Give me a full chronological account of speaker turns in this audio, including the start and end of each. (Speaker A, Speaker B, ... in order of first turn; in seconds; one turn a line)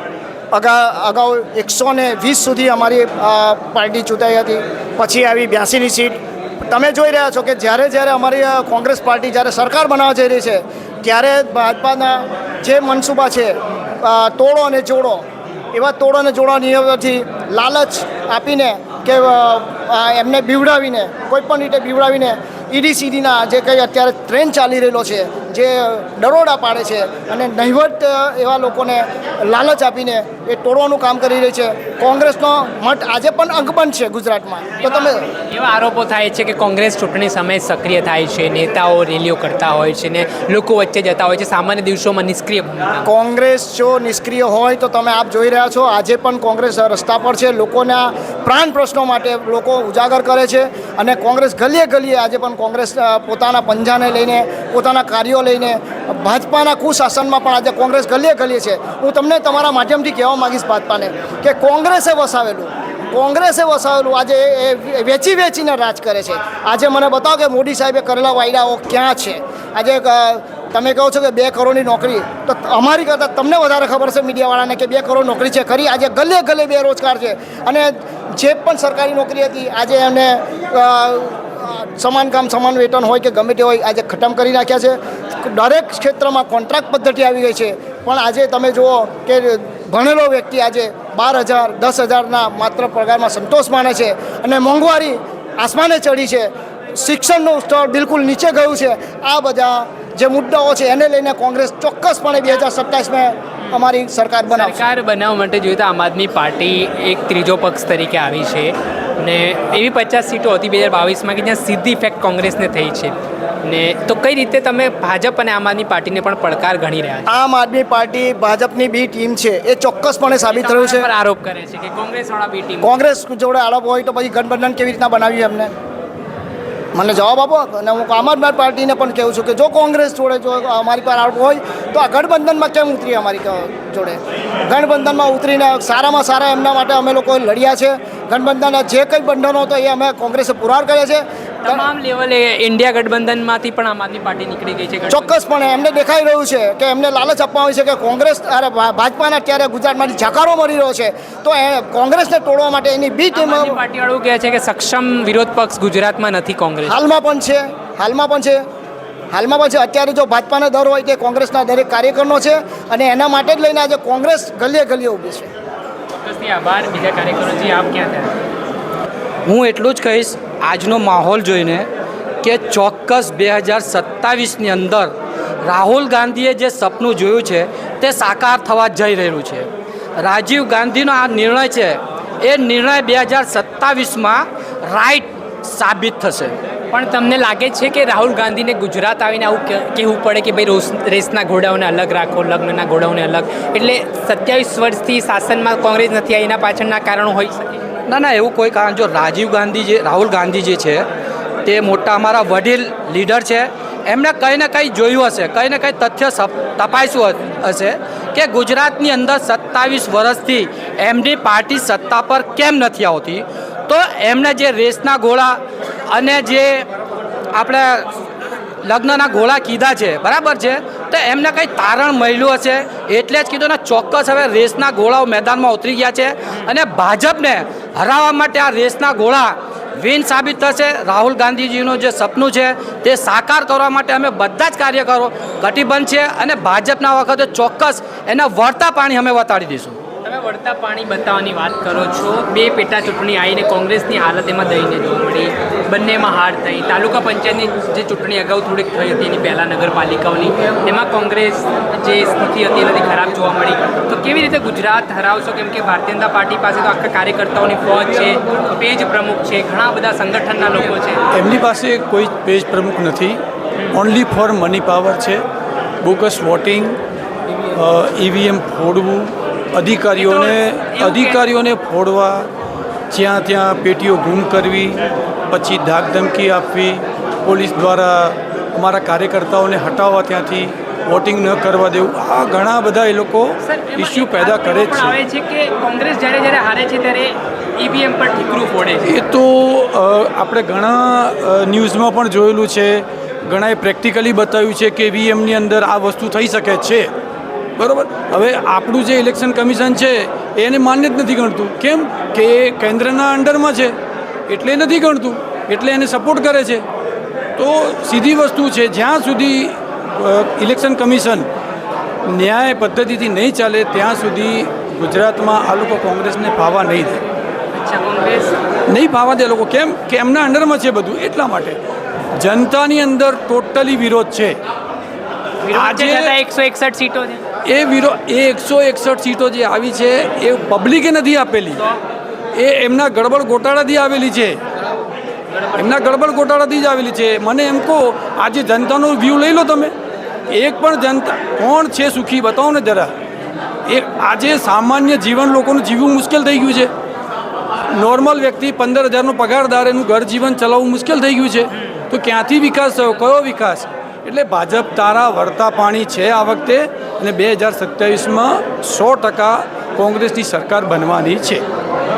Speaker A: 0.5-35.2
Speaker B: 34.8-43.1
Speaker A: 43.0-104.8
Speaker B: 104.5-117.3
Speaker A: 117.3-121.1
Speaker B: 120.5-122.9
Speaker A: 122.8-125.7
Speaker A: 126.9-141.9
Speaker B: 141.6-145.3
Speaker A: 145.1-153.8
Speaker B: 153.3-157.0
Speaker A: 156.8-158.6
Speaker A: 159.3-165.5
Speaker B: 166.2-168.3
Speaker C: 169.5-171.9
Speaker C: 172.4-179.7
Speaker C: 180.2-186.6
Speaker B: 186.9-197.8
Speaker C: 198.1-201.1
Speaker C: 201.7-216.9
Speaker C: 217.5-218.1
Speaker C: 218.8-240.0
Speaker B: 240.2-261.2
Speaker D: 261.3-265.4
Speaker D: 266.0-267.0
Speaker D: 267.7-272.5
Speaker B: 270.2-271.4
Speaker D: 273.1-275.0
Speaker D: 275.5-285.2
Speaker B: 283.6-289.2
Speaker D: 289.1-297.1
Speaker D: 297.8-304.0
Speaker D: 304.5-306.9
Speaker D: 307.6-311.5
Speaker D: 312.3-317.2
Speaker B: 317.7-318.5
Speaker D: 318.9-321.8
Speaker D: 322.4-324.6
Speaker B: 325.6-327.4
Speaker D: 325.7-326.4
Speaker D: 327.7-331.8
Speaker D: 332.6-334.6
Speaker D: 335.7-339.9
Speaker D: 340.5-343.1
Speaker D: 343.9-346.9
Speaker D: 347.9-361.6